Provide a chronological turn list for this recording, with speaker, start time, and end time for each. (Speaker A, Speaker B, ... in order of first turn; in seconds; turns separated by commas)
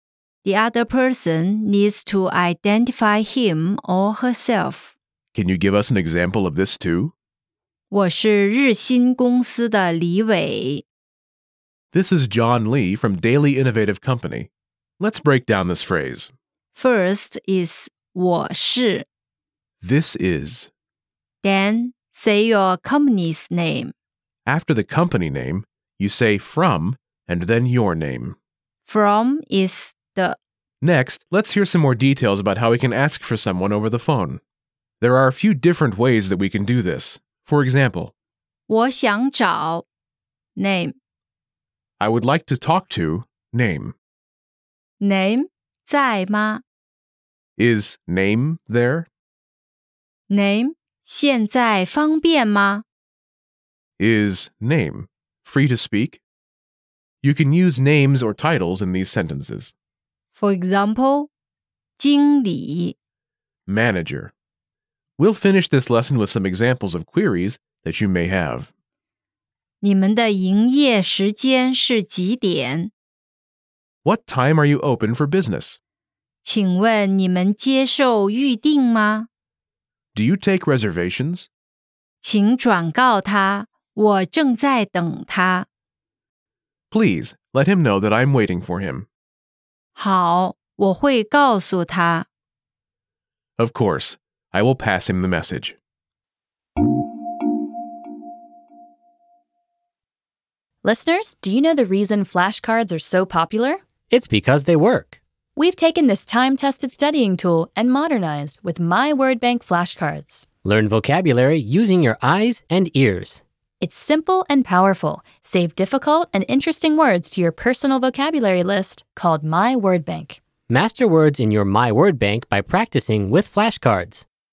Speaker A: 0.4-5.0, Speaker B: 5.3-7.1, Speaker A: 7.9-10.8, Speaker B: 11.9-16.3, Speaker A: 16.7-19.1, Speaker B: 19.8-20.7, Speaker A: 21.4-23.9, Speaker B: 24.5-28.4, Speaker A: 28.9-30.4, Speaker B: 30.8-34.4, Speaker B: 35.0-38.1, Speaker A: 38.7-39.9, Speaker A: 40.6-41.0, Speaker B: 42.0-44.0, Speaker A: 45.0-46.6, Speaker B: 47.6-49.1, Speaker A: 50.3-52.9, Speaker B: 54.0-56.2, Speaker B: 57.2-59.7, Speaker A: 60.4-61.3, Speaker A: 62.0-63.0, Speaker B: 63.7-64.3, Speaker B: 65.2-68.7, Speaker A: 69.8-72.9, Speaker B: 74.0-75.8, Speaker A: 76.4-79.3, Speaker B: 80.2-81.5, Speaker A: 82.2-85.7, Speaker B: 86.9-89.1, Speaker A: 90.0-92.3, Speaker B: 93.6-95.8, Speaker C: 100.8-103.8, Speaker D: 104.1-105.2, Speaker C: 105.6-110.5, Speaker D: 110.6-113.4, Speaker C: 113.8-120.4, Speaker D: 120.7-124.2